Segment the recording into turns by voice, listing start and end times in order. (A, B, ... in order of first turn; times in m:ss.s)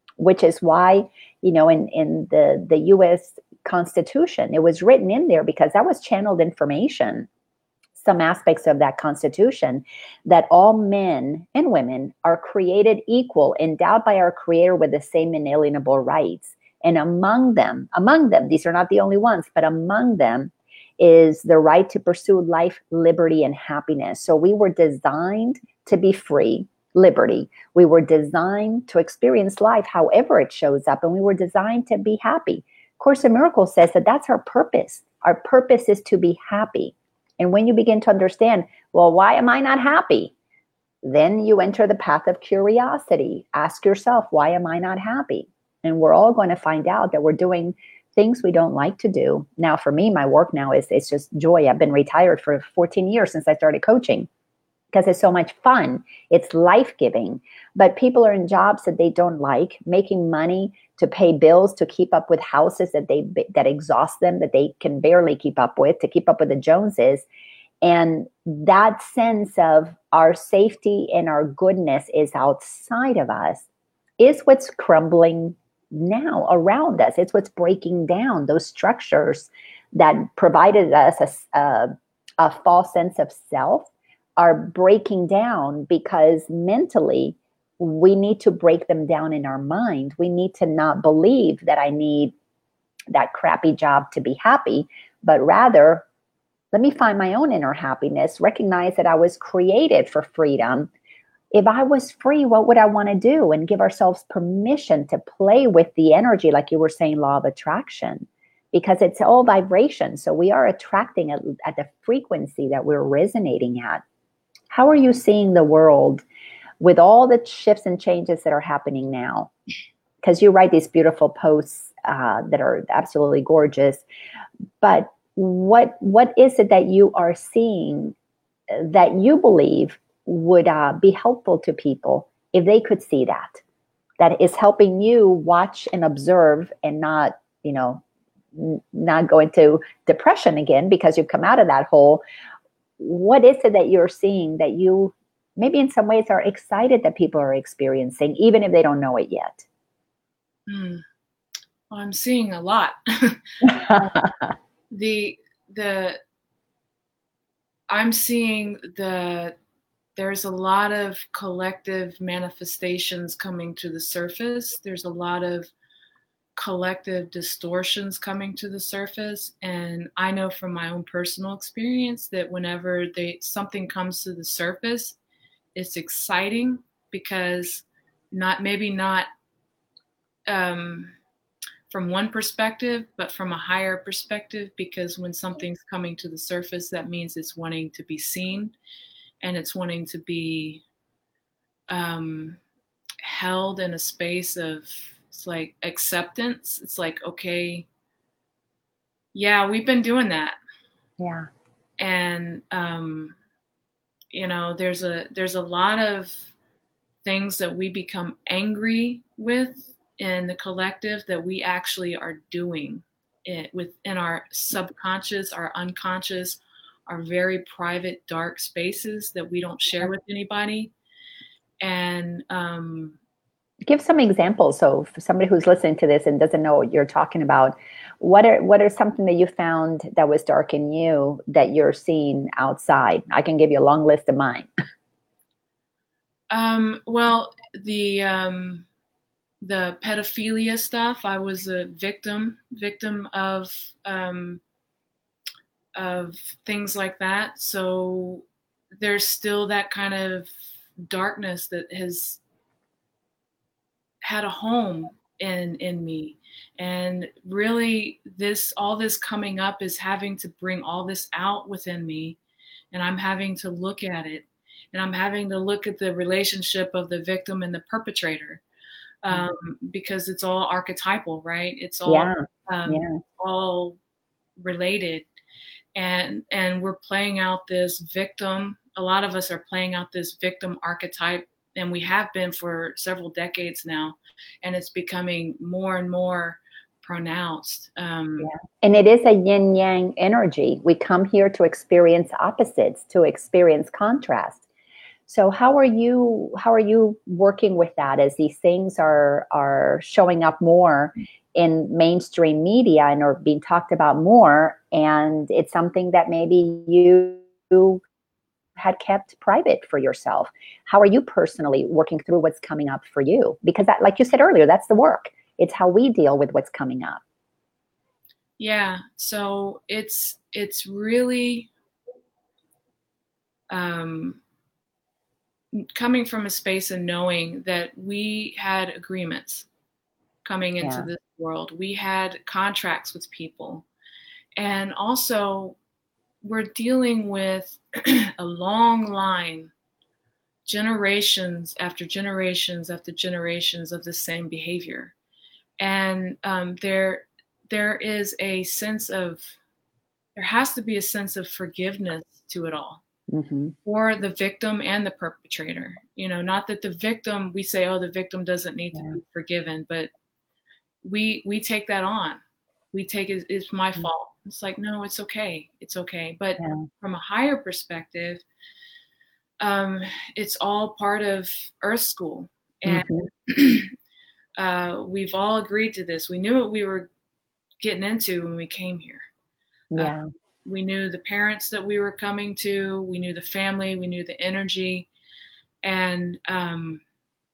0:00.2-0:07.3 A
0:08.0-0:40.3 A
0:41.0-0:54.3 A
0:54.9-1:07.3 A
1:07.8-1:13.7 A
1:14.2-1:32.3 A
1:33.1-1:36.1 A
1:36.7-1:40.9 A
1:41.5-1:54.0 A
1:54.7-1:56.2 A
1:56.8-1:59.5 A
2:00.2-2:04.0 A
2:04.8-2:08.2 A
2:08.7-2:13.6 A
2:14.2-2:18.0 A
2:18.6-2:22.2 A
2:23.0-2:29.6 A
2:30.7-2:31.0 B
2:31.9-2:34.2 B
2:33.6-2:34.3 A
2:34.9-2:36.2 B
2:37.9-2:39.6 B
2:40.2-2:45.7 B
2:46.6-2:55.2 B
2:55.8-2:59.3 B
3:00.5-3:01.1 B
3:01.9-3:08.8 B
3:09.4-3:10.8 B
3:11.9-3:12.6 B
3:13.2-3:17.9 B
3:19.3-3:20.6 B
3:21.2-3:21.5 A
3:22.0-3:23.4 B
3:24.3-3:26.5 B
3:27.2-3:40.9 B
3:41.8-3:43.2 B
3:43.9-3:54.7 A
3:56.5-3:58.9 B
3:59.6-4:04.6 B
4:06.0-4:12.4 B
4:14.2-4:22.4 B
4:22.9-4:28.6 B
4:29.2-4:34.0 B
4:29.3-4:29.6 A
4:32.1-4:33.2 A
4:34.6-4:35.3 B
4:36.0-4:48.5 B
4:48.4-4:54.6 A
4:55.3-5:08.0 A
5:08.8-5:17.2 A
5:18.6-5:21.7 B
5:23.7-5:24.4 B
5:25.7-5:29.7 B
5:30.4-5:33.9 B
5:30.8-5:31.1 A
5:34.6-5:35.8 B
5:36.4-5:39.7 B
5:40.7-5:45.1 B
5:45.8-5:49.6 B
5:50.4-5:53.0 B
5:53.3-5:53.7 A
5:53.8-6:00.1 B
6:01.0-6:02.4 B
6:02.9-6:08.4 B
6:06.6-6:06.9 A
6:09.6-6:13.9 B
6:12.9-6:13.3 A
6:14.6-6:17.1 B
6:17.8-6:19.3 B
6:19.9-6:20.3 A
6:20.0-6:25.1 B
6:25.8-6:27.0 B